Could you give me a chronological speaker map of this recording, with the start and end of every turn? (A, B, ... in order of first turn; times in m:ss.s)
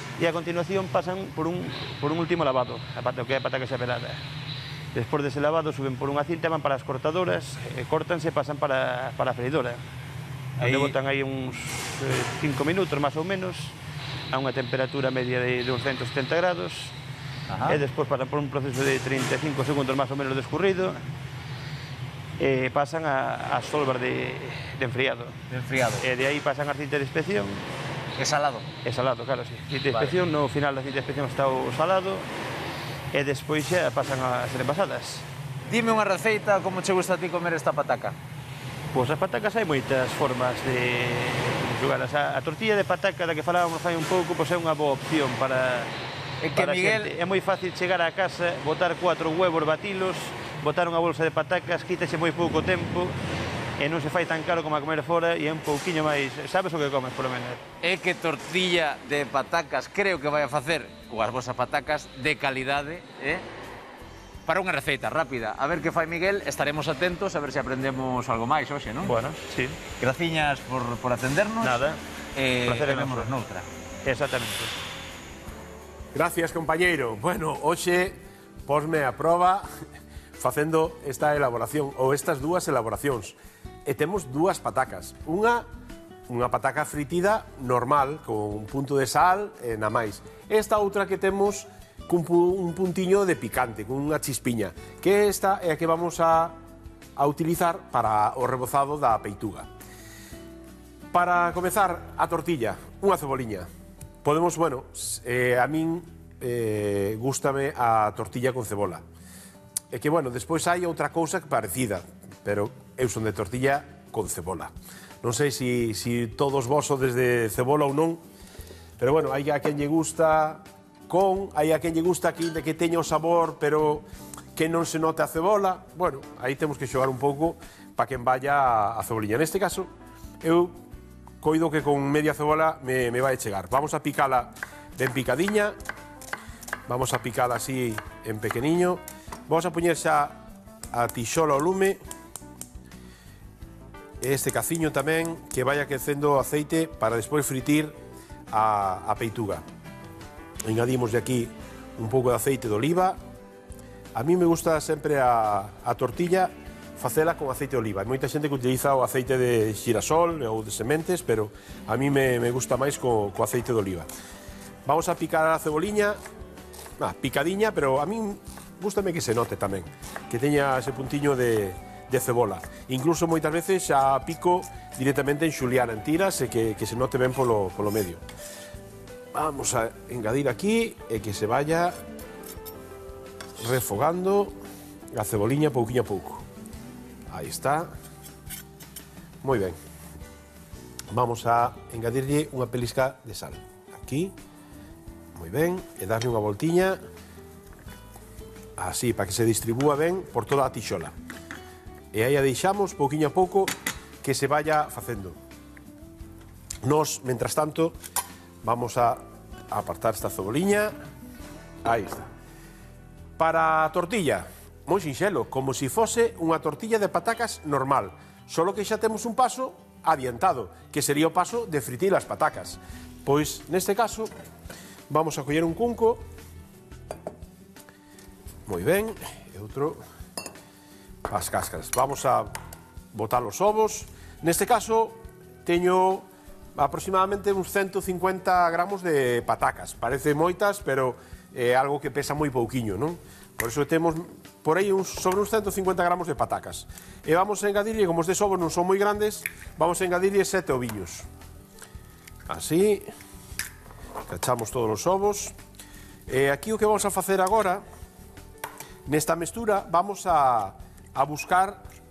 0:00.2-0:04.2 A
0:04.9-0:09.8 A
0:10.6-0:10.9 B
0:10.6-0:13.7 A
0:14.3-0:16.9 A
0:17.5-0:17.8 B
0:17.6-0:21.0 A
0:22.4-0:25.4 A
0:25.5-0:26.0 B
0:26.0-0:27.7 A
0:28.2-0:28.6 B
0:28.8-0:32.3 A
0:33.1-0:35.2 A
0:35.7-0:38.1 B
0:38.9-0:45.9 A
0:46.4-0:47.1 B
0:46.5-0:53.2 A
0:53.8-0:57.6 A
0:57.8-1:03.4 B
1:04.5-1:09.1 B
1:09.0-1:09.8 A
1:10.0-1:11.7 B
1:11.6-1:12.0 A
1:12.4-1:13.6 B
1:12.6-1:13.3 A
1:14.0-1:14.7 A
1:16.1-1:19.7 C
1:20.4-1:25.6 C
1:26.3-1:36.6 C
1:37.2-1:39.7 C
1:41.1-1:43.7 C
1:44.2-1:49.0 C
1:49.9-1:58.2 C
1:59.0-2:09.9 C
2:10.4-2:10.8 C
2:11.4-2:15.7 C
2:16.9-2:20.4 C
2:20.9-2:22.0 C
2:24.2-2:28.0 C
2:28.5-2:29.6 C
2:30.6-2:33.2 C
2:34.1-2:44.1 C
2:44.8-2:46.2 C
2:47.0-2:58.2 C
2:59.3-3:02.0 C
3:03.6-3:04.6 C
3:05.1-3:06.4 C
3:07.3-3:07.9 C
3:09.4-3:09.8 C
3:11.1-3:14.4 C
3:15.3-3:17.0 C
3:18.8-3:21.1 C
3:22.1-3:25.4 C
3:26.8-3:28.0 C
3:28.6-3:30.9 C
3:31.8-3:32.3 C
3:33.4-3:44.3 C
3:45.1-3:46.2 C
3:48.6-3:50.0 C
3:51.2-3:52.5 C
3:53.1-4:11.3 C
4:12.5-4:13.1 C
4:14.2-4:15.5 C
4:16.3-4:17.8 C
4:19.0-4:21.8 C